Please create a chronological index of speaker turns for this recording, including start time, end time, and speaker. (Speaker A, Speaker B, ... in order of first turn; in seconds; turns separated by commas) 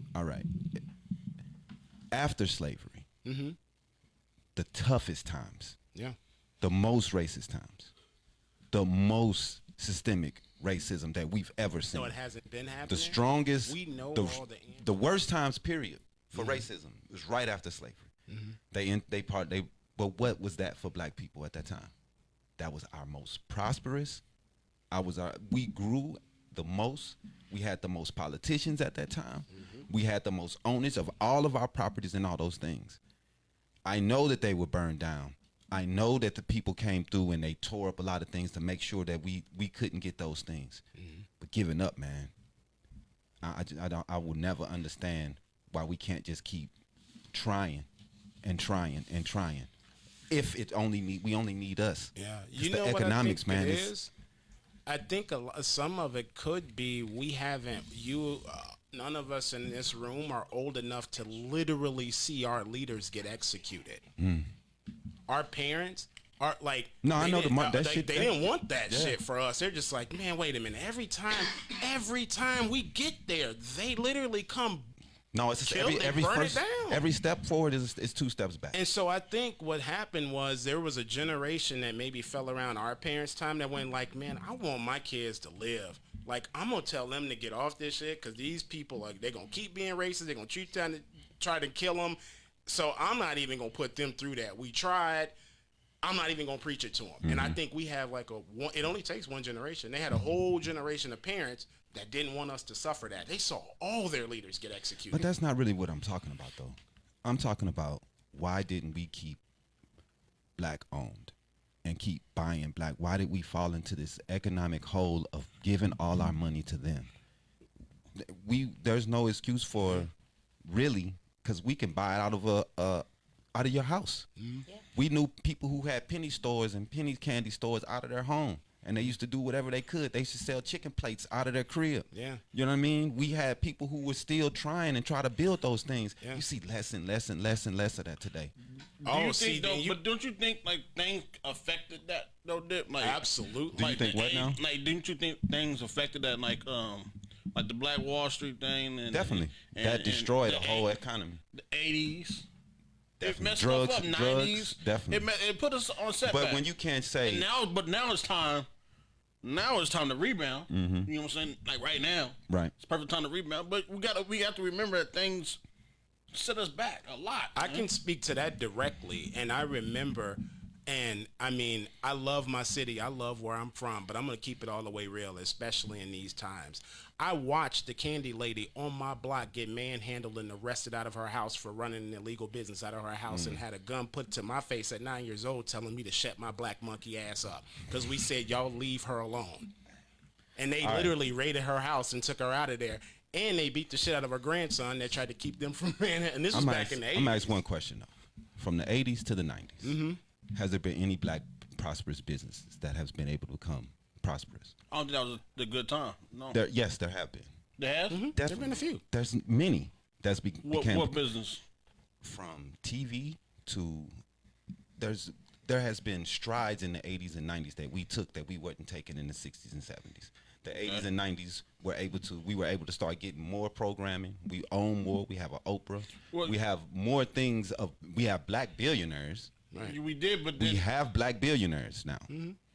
Speaker A: 0.1-0.8, Speaker A: 2.1-3.1, Speaker B: 3.2-3.6, Speaker A: 4.5-5.8, Speaker A: 6.6-7.9, Speaker A: 8.7-12.2, Speaker B: 11.9-14.9, Speaker A: 12.9-18.1, Speaker B: 16.3-16.6, Speaker B: 18.3-18.6, Speaker A: 18.7-21.9, Speaker A: 22.6-24.2, Speaker A: 24.9-33.0, Speaker B: 29.5-29.8, Speaker A: 33.8-40.8, Speaker B: 41.0-41.3, Speaker A: 41.4-42.3, Speaker A: 43.4-46.7, Speaker A: 47.3-47.9, Speaker A: 48.4-49.7, Speaker A: 50.3-53.9, Speaker B: 52.1-54.1, Speaker B: 54.9-64.0, Speaker A: 64.2-64.5, Speaker B: 65.3-74.9, Speaker A: 67.0-69.2, Speaker A: 75.3-78.8, Speaker B: 75.6-77.0, Speaker B: 78.7-95.3, Speaker B: 96.0-105.3, Speaker A: 97.2-97.6, Speaker A: 105.1-109.4, Speaker A: 110.6-111.3, Speaker A: 111.8-117.1, Speaker A: 118.2-120.1, Speaker B: 119.8-120.1, Speaker A: 120.7-124.3, Speaker B: 124.4-124.7, Speaker A: 124.9-138.5, Speaker B: 132.1-132.4, Speaker C: 139.0-150.9, Speaker B: 139.0-140.0, Speaker B: 143.0-143.9, Speaker A: 143.8-144.6, Speaker A: 149.1-151.4, Speaker C: 151.5-152.5, Speaker A: 153.2-155.3, Speaker C: 153.2-156.7, Speaker A: 156.2-157.5, Speaker C: 157.2-158.7, Speaker C: 159.4-165.6, Speaker A: 160.7-161.1, Speaker C: 166.3-167.8, Speaker B: 167.6-189.7, Speaker A: 183.3-183.6, Speaker B: 190.6-197.6, Speaker A: 190.8-191.2, Speaker A: 196.5-200.0, Speaker B: 199.8-200.2, Speaker A: 200.5-204.7, Speaker C: 204.9-206.6, Speaker A: 206.5-207.5, Speaker C: 207.8-208.2, Speaker B: 208.1-209.0, Speaker A: 208.3-211.2, Speaker C: 210.6-211.6, Speaker A: 212.2-214.1, Speaker A: 215.0-229.5, Speaker C: 220.8-221.1, Speaker B: 229.7-230.0, Speaker C: 229.8-230.8, Speaker A: 230.5-232.3, Speaker B: 232.3-232.6